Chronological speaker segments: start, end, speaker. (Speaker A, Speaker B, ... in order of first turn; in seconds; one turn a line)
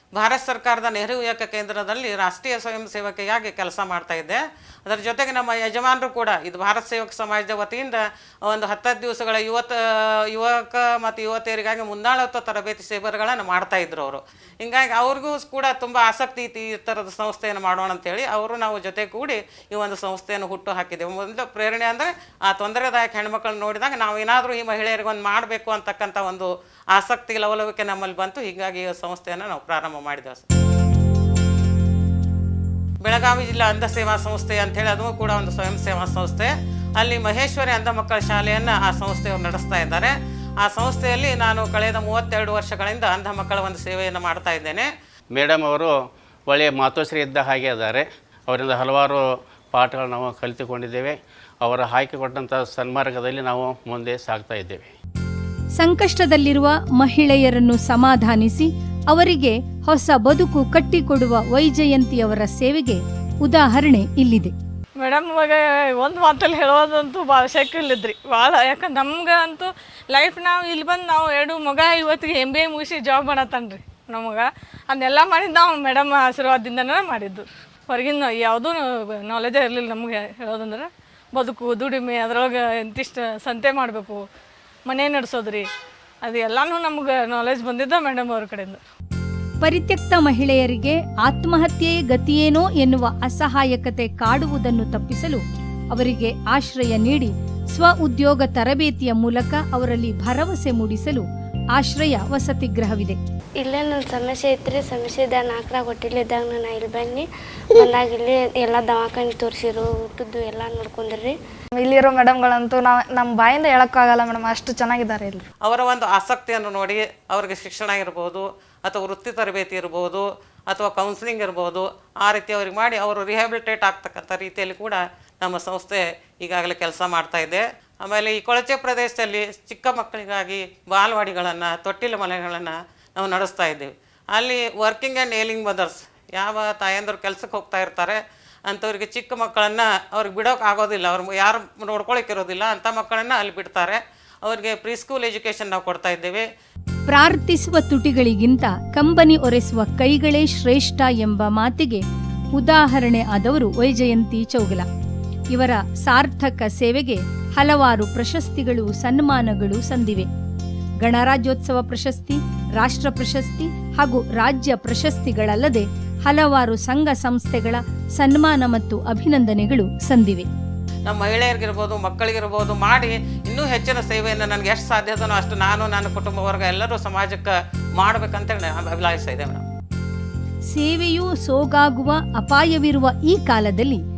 Speaker A: 0.1-30.4
Speaker A: 33.0-44.9
Speaker B: 45.4-45.9
Speaker B: 46.5-49.2
Speaker B: 49.7-54.9
Speaker C: 55.8-64.5
Speaker D: 65.0-84.2
Speaker D: 84.8-85.7
Speaker D: 86.2-88.8
Speaker C: 89.6-101.2
Speaker C: 101.8-103.2
Speaker E: 103.6-107.2
Speaker E: 107.8-111.3
Speaker F: 111.8-115.5
Speaker A: 115.6-138.2
Speaker A: 138.7-146.4
Speaker C: 147.1-152.0
Speaker C: 152.6-154.9
Speaker C: 155.5-160.3
Speaker C: 161.0-170.5
Speaker A: 171.1-179.6
Speaker C: 180.7-184.0